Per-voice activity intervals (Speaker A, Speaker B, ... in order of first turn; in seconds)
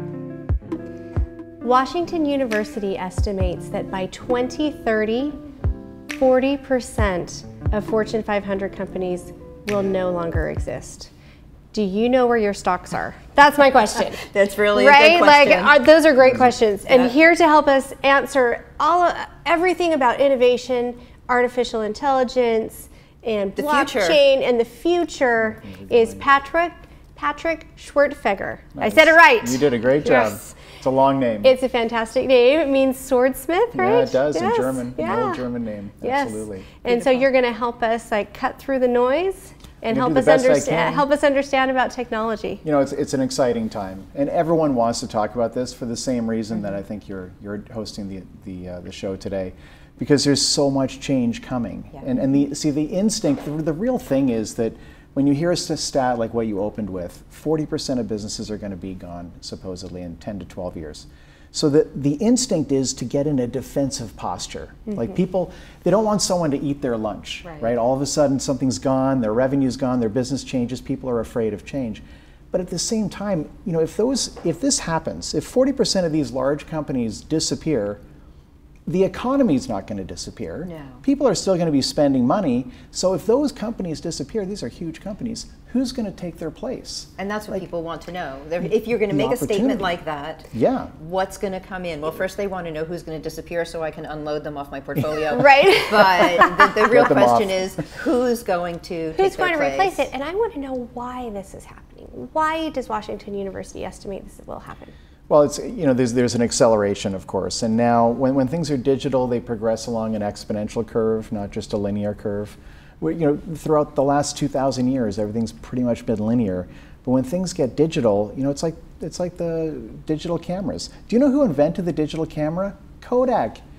Speaker A: 1.6-5.4, 6.1-11.1, 11.7-30.6, 31.4-35.4, 36.0-42.6, 95.3-96.5, 99.2-104.9
Speaker B: 14.2-15.8, 16.9-17.1, 23.6-24.2, 36.9-37.2, 67.5-67.7, 80.6-81.0, 87.2-100.1
Speaker C: 25.6-26.3, 28.8-31.5, 33.7-36.7, 39.9-41.1, 42.6-78.0, 78.8-87.1, 89.1-89.9, 90.5-90.9, 96.9-97.7, 105.3-123.6